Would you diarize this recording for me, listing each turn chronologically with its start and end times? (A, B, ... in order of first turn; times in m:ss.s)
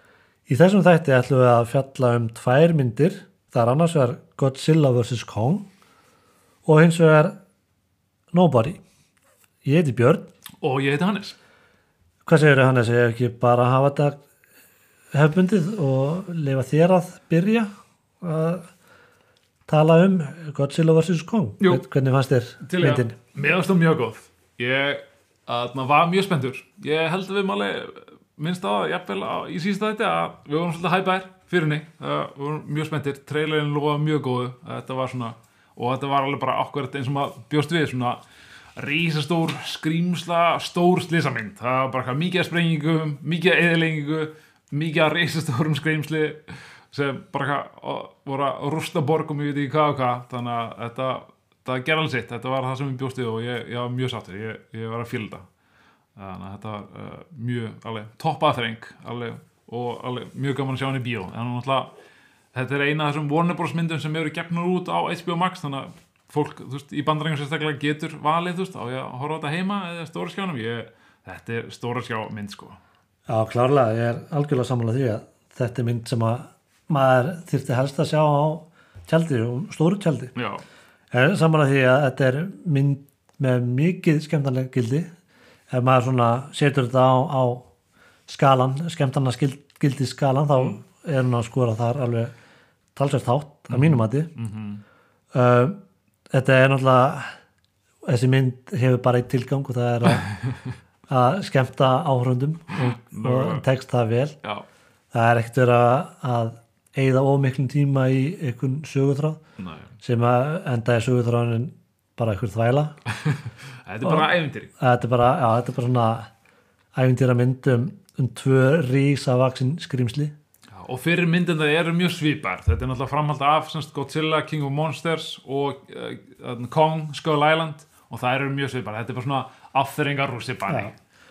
0:00.5-0:05.6 A
0:06.6-0:07.4 A
0:08.3-0:08.8 A
0:09.6-0:10.3 A
0:10.6-0:11.4 B
0:12.3-0:14.2 A
0:15.1-0:17.7 A
0:18.2-0:18.7 A
0:19.7-0:23.2 A
0:22.6-0:38.2 B
0:38.8-0:55.5 B
0:56.2-1:01.9 B
1:02.5-1:12.8 B
1:13.3-1:20.3 A
1:20.4-1:20.6 B
1:21.1-1:25.1 A
1:25.7-1:27.7 A
1:28.3-1:32.3 A
1:33.0-1:34.3 A
1:33.7-1:34.8 B
1:35.3-1:35.8 A
1:36.3-1:37.4 A
1:38.0-1:40.3 A
1:40.1-1:40.8 B
1:41.1-1:44.4 A
1:42.8-1:43.7 B
1:45.1-1:49.4 A
1:49.6-1:49.9 B
1:50.0-1:53.0 A
1:53.1-1:54.7 B
1:54.0-1:56.3 A
1:56.9-2:00.3 A
2:00.7-2:11.0 B